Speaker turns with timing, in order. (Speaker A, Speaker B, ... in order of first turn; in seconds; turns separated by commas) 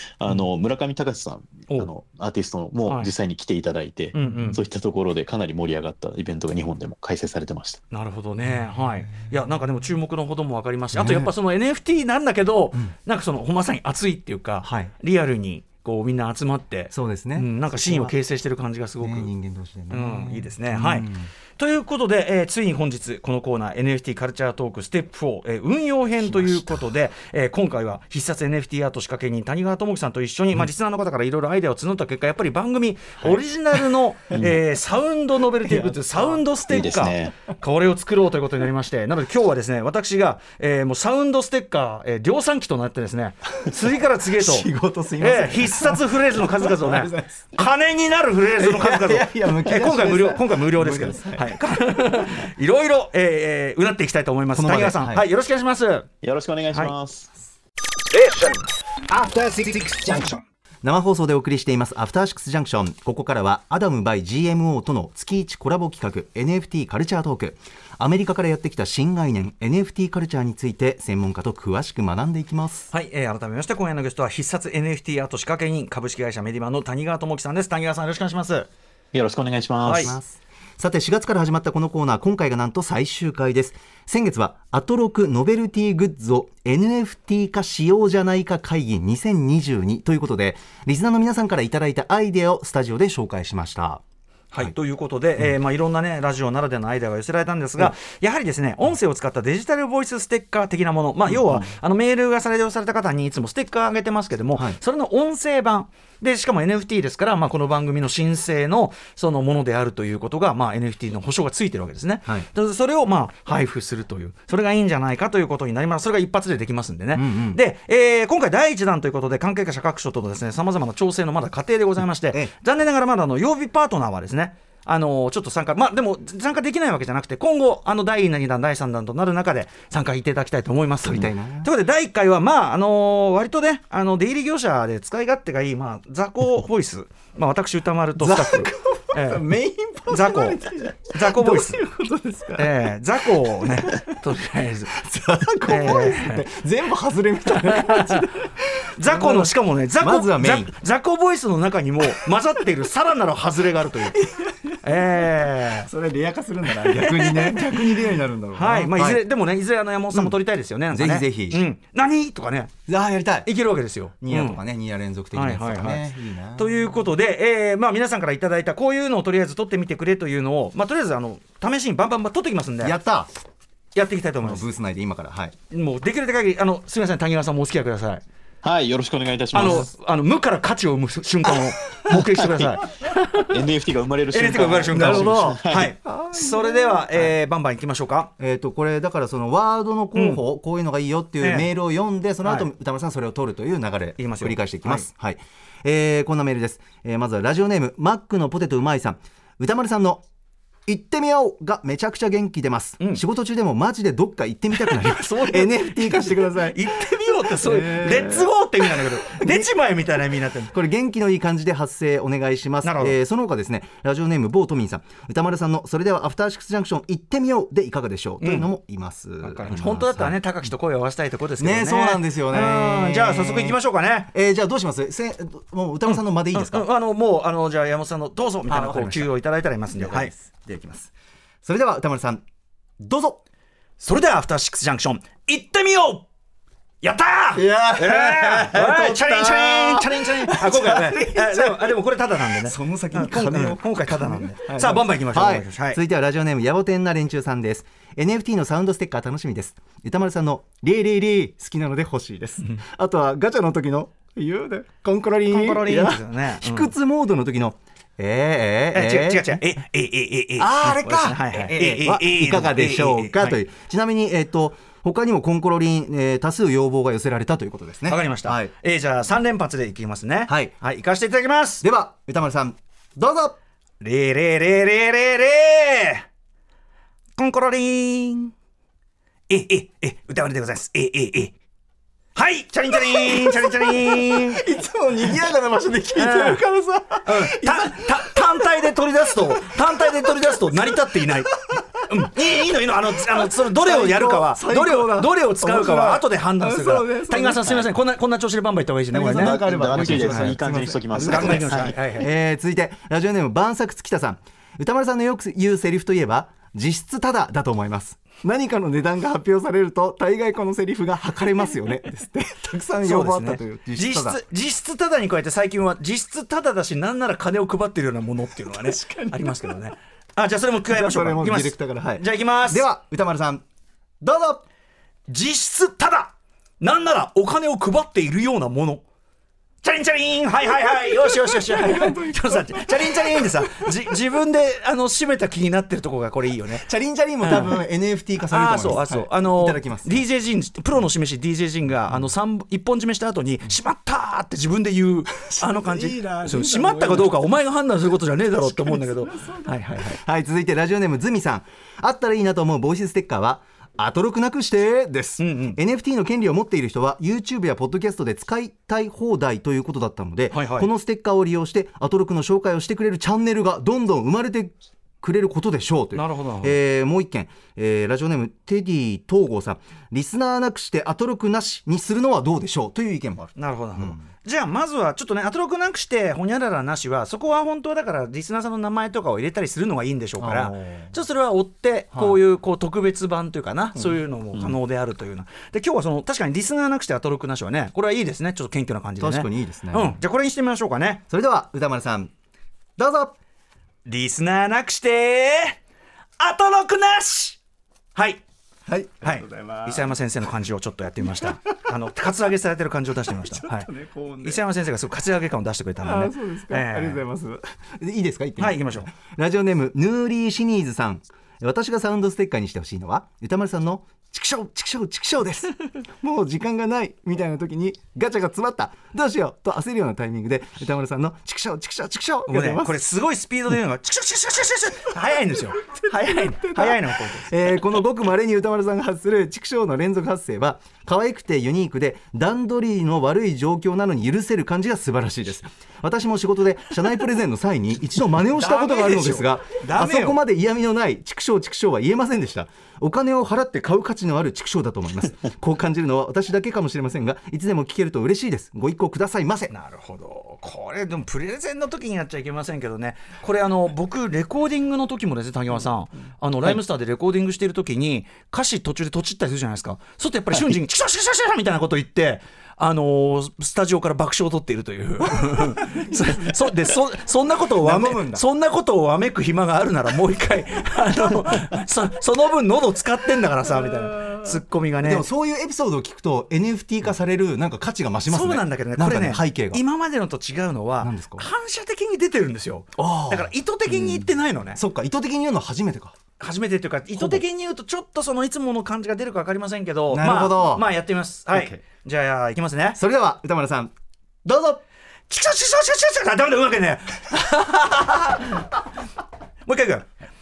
Speaker A: 0.2-7.8, Speaker B: 4.1-4.6, Speaker B: 7.9-19.3, Speaker C: 10.9-11.3, Speaker C: 14.6-14.9, Speaker C: 16.9-18.1, Speaker C: 19.0-21.3, Speaker B: 19.9-56.1, Speaker C: 26.2-26.8, Speaker C: 35.6-36.4, Speaker A: 36.7-37.3, Speaker C: 44.4-47.6, Speaker C: 48.6-51.6, Speaker C: 54.5-55.2, Speaker A: 56.2-57.3, Speaker D: 58.1-60.4, Speaker C: 60.8-72.9, Speaker B: 72.9-78.7, Speaker A: 79.1-80.1, Speaker B: 79.8-80.2, Speaker C: 80.0-94.0, Speaker B: 94.5-139.5, Speaker C: 117.2-117.6, Speaker C: 131.1-131.7, Speaker C: 138.2-142.8, Speaker B: 140.1-141.8, Speaker B: 142.6-145.0, Speaker C: 143.4-144.2, Speaker C: 144.9-150.7, Speaker B: 145.7-146.4, Speaker B: 147.5-148.3, Speaker B: 149.0-154.3, Speaker C: 154.2-154.8, Speaker B: 154.8-155.9, Speaker C: 155.8-159.2, Speaker B: 156.9-157.8, Speaker B: 158.6-162.7, Speaker C: 160.1-160.4, Speaker C: 160.9-161.6, Speaker C: 162.9-163.5, Speaker B: 163.4-164.6, Speaker C: 164.2-166.9, Speaker B: 165.3-173.0, Speaker C: 172.8-173.3, Speaker B: 173.9-174.7, Speaker C: 174.4-175.6, Speaker B: 175.7-178.2, Speaker A: 178.6-179.9, Speaker B: 179.5-183.6, Speaker A: 182.1-182.8, Speaker A: 183.4-185.9, Speaker B: 184.3-188.3, Speaker C: 184.9-187.3, Speaker C: 188.4-200.2, Speaker B: 190.2-190.4, Speaker B: 191.4-191.7, Speaker B: 192.4-192.7, Speaker B: 194.2-195.1, Speaker C: 200.9-209.7, Speaker B: 204.8-210.7, Speaker C: 210.7-220.4, Speaker B: 212.8-213.2, Speaker B: 218.4-218.7, Speaker B: 219.4-224.3, Speaker C: 221.6-223.8, Speaker C: 224.3-226.9, Speaker B: 226.1-230.3, Speaker C: 228.7-229.3, Speaker C: 229.9-231.1, Speaker C: 231.6-232.4, Speaker C: 233.0-233.4, Speaker B: 234.0-236.3, Speaker B: 237.0-246.0, Speaker C: 237.5-242.0, Speaker C: 242.5-259.6, Speaker B: 255.5-256.9, Speaker B: 258.9-263.6, Speaker C: 260.6-268.7, Speaker B: 268.1-271.8, Speaker C: 270.5-270.7, Speaker C: 271.8-273.6, Speaker B: 274.0-276.2, Speaker B: 277.4-278.5, Speaker B: 279.5-281.6, Speaker B: 282.4-284.6, Speaker C: 282.9-292.1, Speaker B: 286.1-286.6, Speaker B: 287.2-300.6, Speaker C: 293.2-297.9, Speaker C: 299.1-314.4, Speaker A: 299.3-301.9, Speaker B: 301.1-302.3, Speaker B: 313.0-322.9, Speaker C: 318.7-319.8, Speaker C: 320.9-323.6, Speaker C: 324.2-324.6, Speaker B: 325.3-329.0, Speaker B: 329.8-336.9, Speaker C: 330.9-334.1, Speaker C: 336.8-340.2, Speaker B: 337.4-337.8, Speaker B: 338.5-350.2, Speaker C: 345.4-347.4, Speaker C: 348.6-374.2, Speaker B: 355.4-355.8, Speaker B: 360.5-360.9, Speaker B: 366.1-366.8, Speaker B: 373.6-391.2, Speaker C: 380.4-381.1, Speaker C: 382.1-382.4, Speaker C: 389.2-390.2, Speaker C: 391.3-392.3, Speaker C: 393.0-393.4, Speaker B: 394.1-395.8, Speaker B: 396.4-397.6, Speaker B: 398.1-398.4, Speaker C: 398.9-400.1, Speaker B: 399.2-403.9, Speaker C: 401.2-401.8, Speaker C: 403.3-404.6, Speaker B: 404.4-407.2, Speaker C: 406.0-423.0, Speaker B: 408.6-409.1, Speaker B: 422.5-427.7, Speaker C: 425.9-449.7, Speaker B: 438.5-440.4, Speaker B: 449.7-475.3, Speaker C: 465.4-466.8, Speaker C: 467.7-468.4, Speaker C: 475.0-479.8, Speaker B: 478.3-484.8, Speaker C: 481.0-481.5, Speaker C: 483.0-486.2, Speaker B: 486.4-493.0, Speaker C: 487.1-487.4, Speaker C: 490.1-490.9, Speaker C: 491.5-491.8, Speaker C: 492.9-493.9, Speaker C: 494.4-494.8, Speaker B: 495.3-498.7, Speaker B: 499.7-500.1